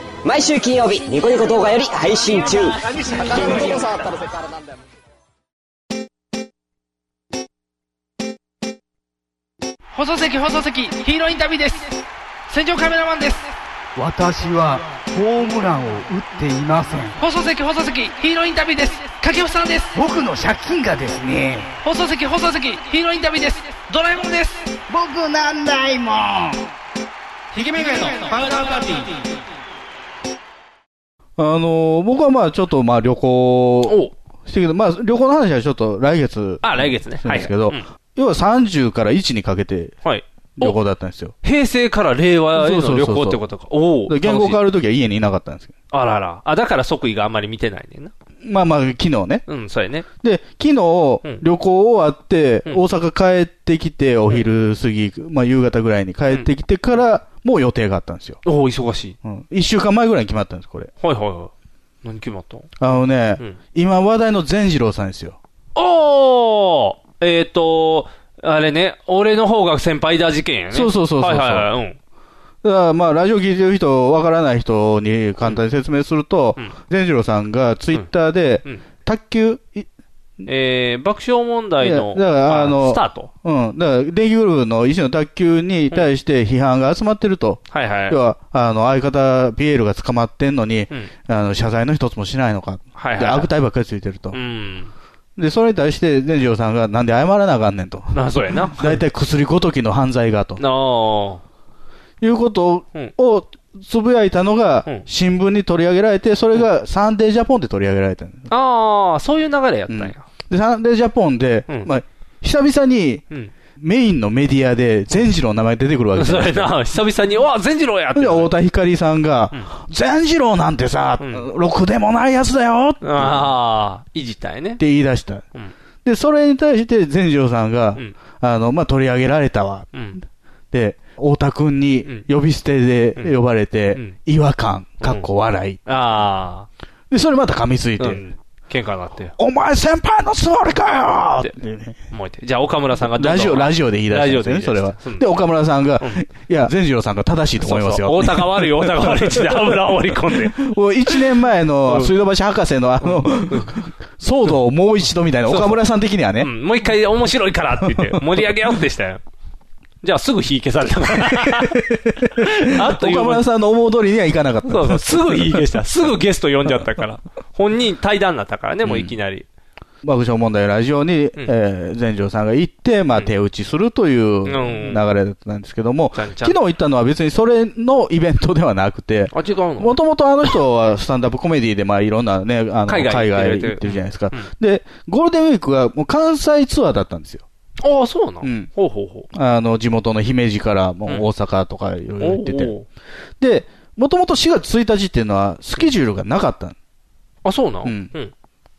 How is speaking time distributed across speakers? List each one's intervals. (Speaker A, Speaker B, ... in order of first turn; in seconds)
Speaker A: 0.2-4.6
Speaker B: 9.9-13.6, 17.2-20.0, 21.8-24.8, 27.5-29.4
Speaker C: 14.0-17.2, 19.9-21.7, 24.9-26.7
Speaker D: 31.4-40.0, 40.6-41.3, 42.6-43.4, 44.1-45.7, 48.4-49.4, 50.2-58.4, 59.2-60.9, 62.8-65.4, 70.7-71.7, 72.6-79.9, 81.8-94.4, 95.4-98.2, 98.7-100.6, 102.2-108.5, 109.9-113.2, 113.8-116.7, 118.2-123.5, 124.8-125.5, 126.0-130.0, 130.7-135.8, 137.1-138.2, 139.4-142.0, 143.1-156.5, 161.3-165.6, 168.8-169.2, 170.0-187.4, 188.4-188.7, 189.3-192.7, 193.4-196.8, 197.8-198.1
Speaker E: 33.9-34.1, 36.6-37.8, 40.0-40.8, 41.4-44.6, 45.9-48.1, 49.5-50.1, 58.4-59.2, 61.0-61.5, 62.0-62.7, 65.8-72.0, 80.5-83.3, 87.7-88.2, 93.0-93.5, 94.3-94.9, 98.1-99.0, 100.6-101.4, 108.5-110.2, 116.2-118.5, 121.2-121.5, 123.0-124.8, 129.9-130.2, 135.0-135.3, 135.9-136.7, 138.0-139.3, 142.1-145.3, 147.6-151.2, 151.9-152.1, 153.0-153.7, 155.5-155.8, 156.4-159.2, 160.0-161.8, 162.4-163.4, 164.7-169.4, 174.4-175.0, 176.2-176.6, 179.3-180.0, 182.9-184.5, 187.8-189.3, 192.2-192.9, 197.4-198.3